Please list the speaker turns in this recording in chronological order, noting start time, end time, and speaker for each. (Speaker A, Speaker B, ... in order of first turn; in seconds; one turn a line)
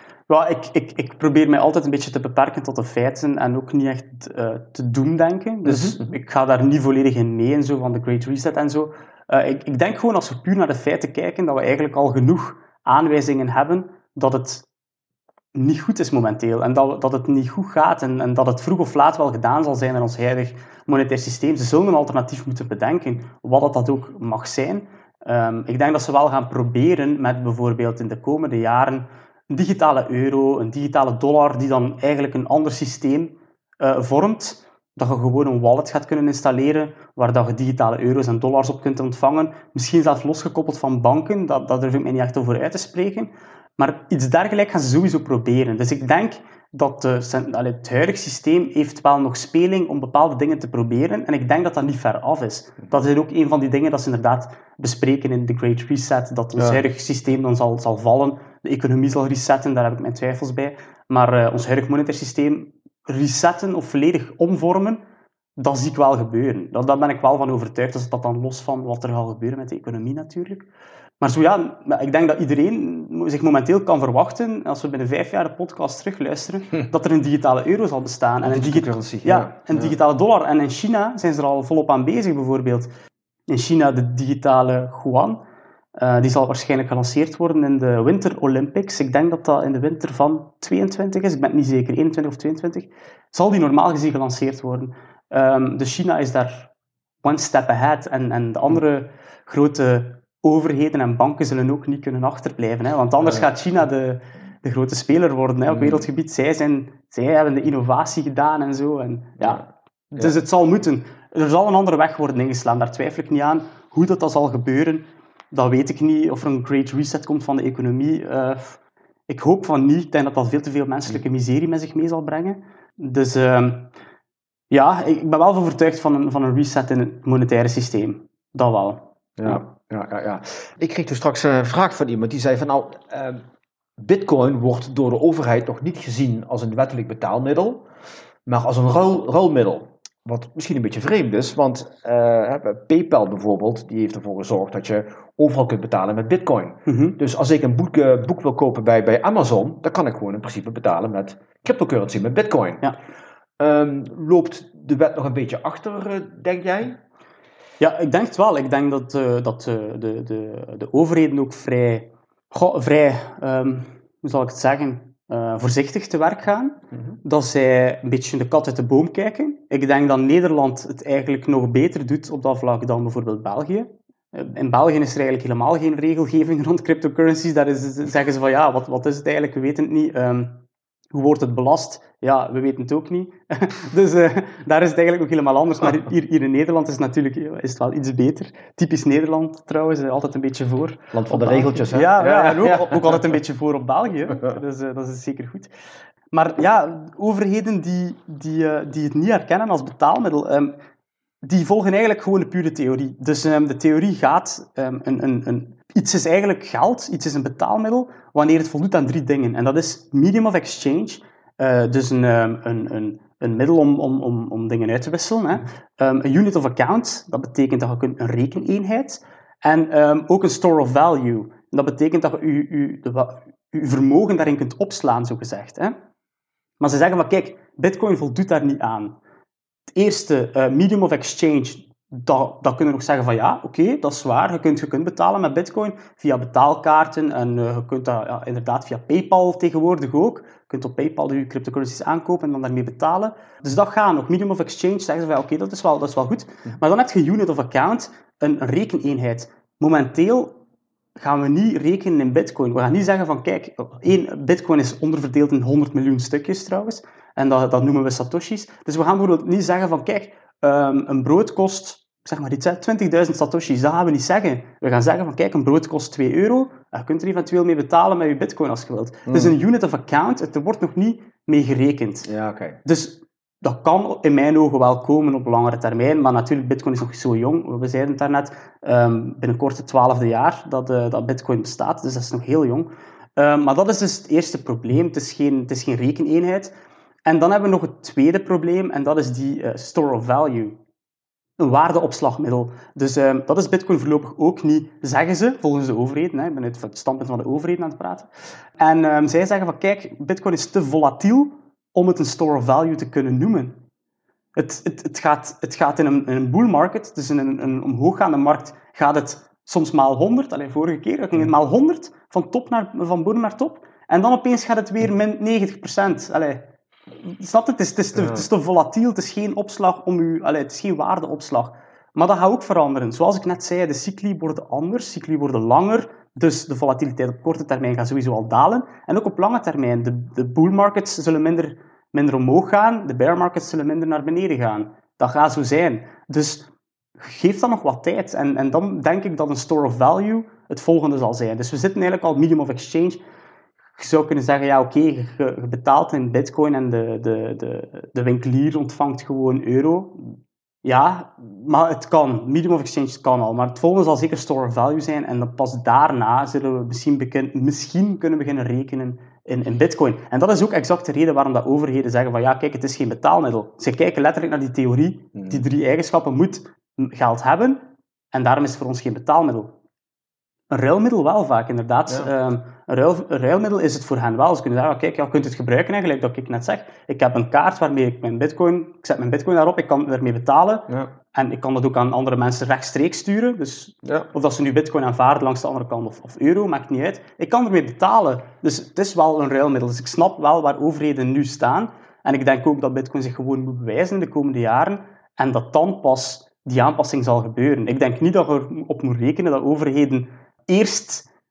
Speaker A: 0.3-14.7
Speaker B: 5.6-6.1
Speaker A: 15.5-65.0
Speaker A: 65.6-70.7
Speaker A: 71.2-82.9
Speaker B: 78.4-80.0
Speaker A: 83.5-85.4
Speaker A: 86.0-96.7
Speaker A: 97.2-123.9
Speaker B: 105.7-106.1
Speaker A: 124.7-129.6
Speaker B: 129.4-133.4
Speaker B: 134.0-137.9
Speaker B: 138.4-152.8
Speaker A: 146.9-147.2
Speaker B: 153.6-157.0
Speaker A: 157.8-195.7
Speaker B: 191.1-193.2
Speaker A: 196.3-200.7
Speaker A: 201.4-225.9
Speaker A: 226.8-229.2
Speaker A: 229.9-250.6
Speaker A: 251.2-272.3
Speaker B: 269.3-269.5
Speaker B: 272.2-272.8
Speaker A: 272.8-286.7
Speaker A: 287.2-290.8
Speaker A: 291.6-303.8
Speaker A: 304.6-316.7
Speaker A: 317.2-343.2
Speaker B: 318.2-318.4
Speaker A: 344.0-367.8
Speaker B: 365.4-365.6
Speaker A: 368.3-369.7
Speaker A: 370.7-401.2